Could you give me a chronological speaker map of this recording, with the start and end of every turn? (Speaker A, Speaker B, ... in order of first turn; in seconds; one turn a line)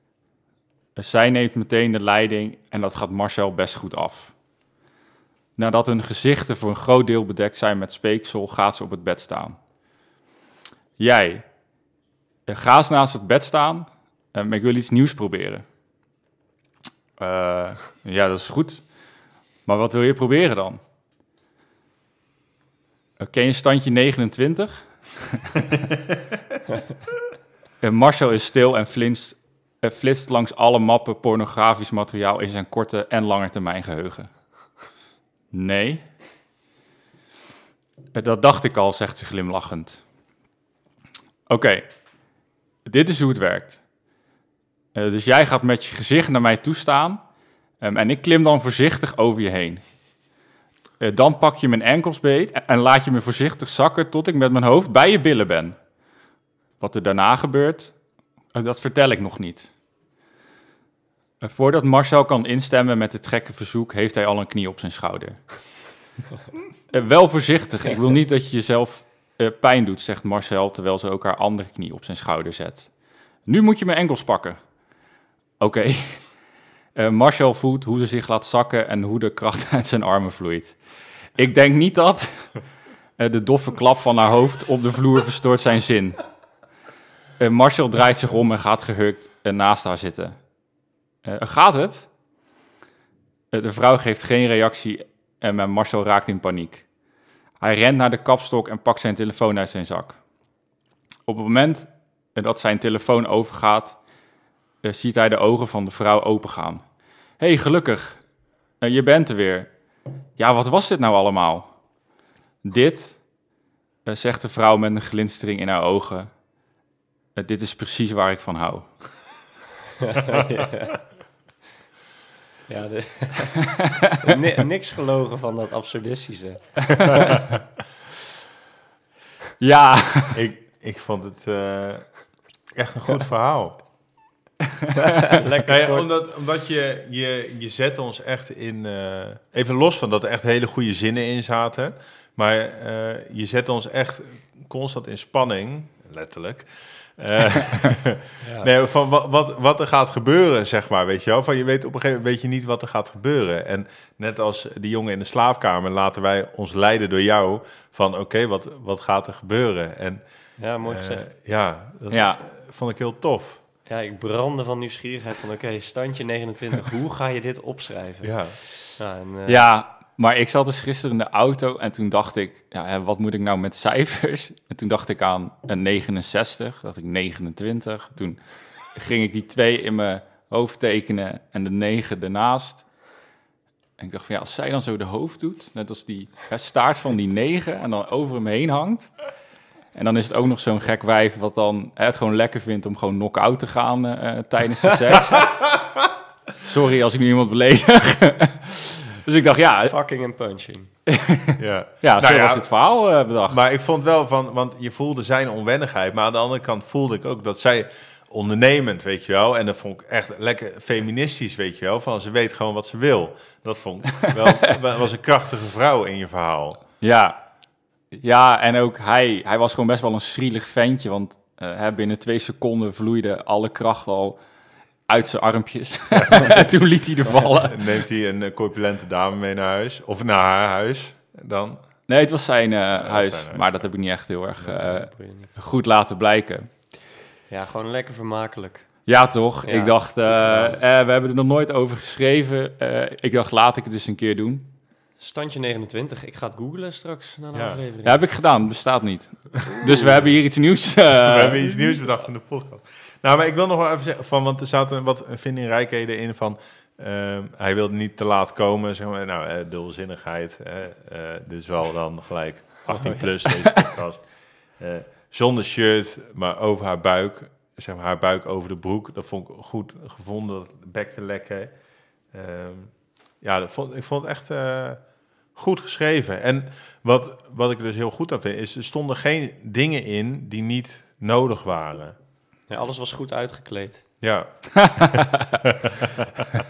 Speaker A: 0.9-4.3
Speaker A: 5.6-9.6
Speaker A: 11.0-11.4
Speaker A: 12.5-15.6
Speaker A: 17.2-18.8
Speaker A: 19.6-20.8
Speaker A: 23.2-25.8
Speaker A: 27.8-34.3
Speaker A: 35.5-36.0
Speaker A: 38.1-40.0
Speaker A: 41.5-41.9
Speaker A: 42.8-43.8
Speaker A: 44.9-47.2
Speaker A: 47.8-49.8
Speaker A: 51.0-55.8
Speaker A: 56.8-58.0
Speaker A: 58.5-59.7
Speaker A: 61.4-65.9
Speaker A: 66.9-72.9
Speaker A: 73.4-74.6
Speaker A: 75.6-76.3
Speaker A: 76.9-82.6
Speaker A: 83.2-86.2
Speaker A: 87.4-90.4
Speaker A: 91.2-92.1
Speaker A: 93.5-96.9
Speaker A: 97.6-100.2
Speaker A: 101.3-104.0
Speaker A: 104.8-106.8
Speaker A: 107.4-108.2
Speaker A: 108.8-109.7
Speaker A: 110.4-111.7
Speaker A: 112.6-113.2
Speaker A: 114.0-116.3
Speaker A: 117.3-119.2
Speaker B: 120.0-121.0
Speaker B: 122.7-127.4
Speaker A: 129.6-130.4
Speaker C: 130.3-133.8
Speaker B: 135.2-136.1
Speaker C: 135.7-160.2
Speaker B: 148.4-148.7
Speaker B: 160.6-161.3
Speaker C: 160.8-163.6
Speaker A: 162.1-162.4
Speaker B: 163.8-169.6
Speaker C: 168.2-168.6
Speaker A: 169.5-182.9
Speaker A: 184.0-189.1
Speaker A: 189.9-195.8
Speaker A: 196.6-199.9
Speaker B: 199.8-200.9
Speaker A: 201.1-203.6
Speaker C: 201.6-202.7
Speaker C: 203.4-216.8
Speaker A: 217.0-217.4
Speaker A: 218.1-224.4
Speaker A: 225.1-227.9
Speaker C: 226.1-226.7
Speaker C: 227.6-231.9
Speaker A: 232.1-236.8
Speaker C: 233.0-233.9
Speaker B: 234.7-235.5
Speaker B: 237.5-239.1
Speaker A: 239.1-244.7
Speaker B: 239.7-240.8
Speaker B: 245.2-248.2
Speaker C: 247.5-247.8
Speaker A: 248.0-251.6
Speaker B: 249.7-250.2
Speaker C: 251.2-271.7
Speaker B: 262.9-263.5
Speaker C: 272.3-282.1
Speaker B: 282.7-284.1
Speaker C: 284.2-285.3
Speaker A: 284.8-285.5